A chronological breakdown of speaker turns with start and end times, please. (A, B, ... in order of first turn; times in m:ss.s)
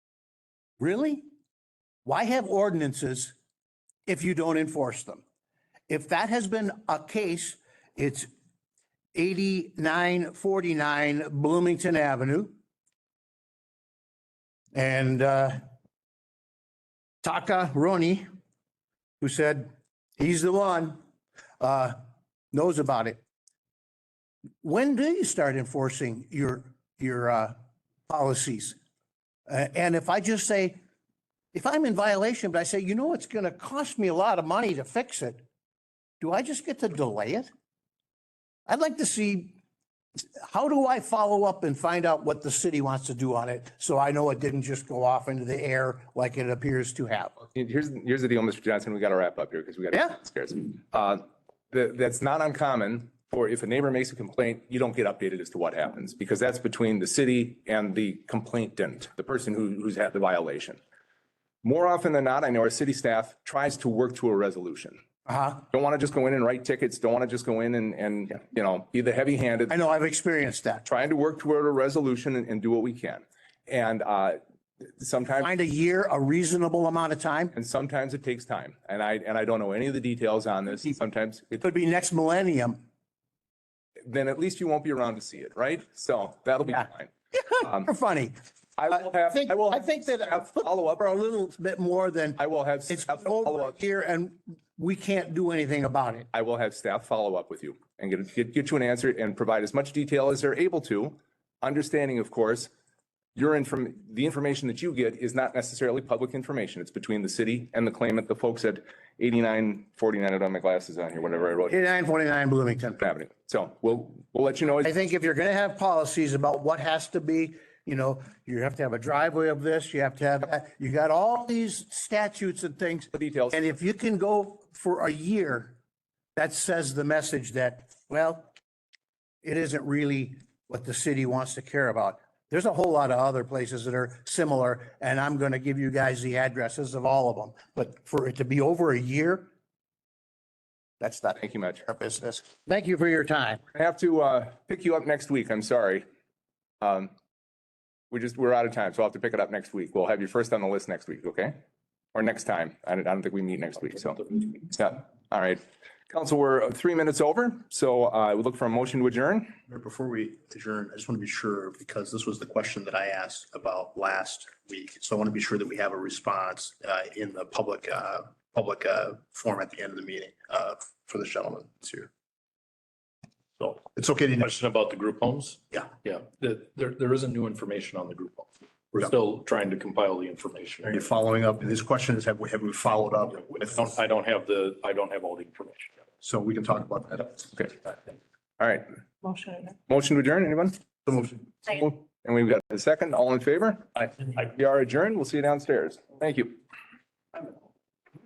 0:00.8-0:01.2 A
0:02.0-0:03.3 A
0:04.0-0:05.2 A
0:05.9-0:08.3 A
0:09.1-0:12.5 A
0:14.7-0:15.6 A
0:17.2-0:18.2 A
0:19.2-0:21.0 A
0:21.6-0:22.0 A
0:22.5-0:23.2 A
0:24.6-0:27.5 A
0:28.1-0:28.8 A
0:29.5-0:30.8 A
0:31.5-0:35.4 A
0:36.2-0:37.5 A
0:38.7-0:39.6 A
0:40.4-0:47.3 A
0:47.5-1:00.8 B
1:01.6-1:05.0 B
1:05.2-1:05.6 A
1:05.7-1:09.8 B
1:09.7-1:10.8 A
1:10.8-1:15.5 B
1:15.4-1:17.5 A
1:17.5-1:21.6 B
1:21.6-1:22.8 A
1:24.0-1:27.8 B
1:27.3-1:28.3 A
1:28.8-1:31.0 B
1:28.9-1:36.3 A
1:32.4-1:33.7 B
1:36.3-1:42.7 B
1:43.3-1:51.7 B
1:51.7-1:53.1 A
1:53.0-1:54.9 B
1:54.8-2:05.8 A
2:03.1-2:03.7 B
2:06.4-2:08.5 A
2:09.4-2:19.5 A
2:21.0-2:23.6 A
2:21.4-2:21.8 B
2:23.7-2:26.0 B
2:26.8-2:27.1 B
2:28.1-2:31.6 B
2:32.1-2:39.6 B
2:39.7-2:52.1 C
2:53.6-2:54.4 C
2:54.4-3:01.0 D
3:00.8-3:04.0 C
3:03.7-3:05.9 D
3:06.2-3:07.6 C
3:08.6-3:16.6 B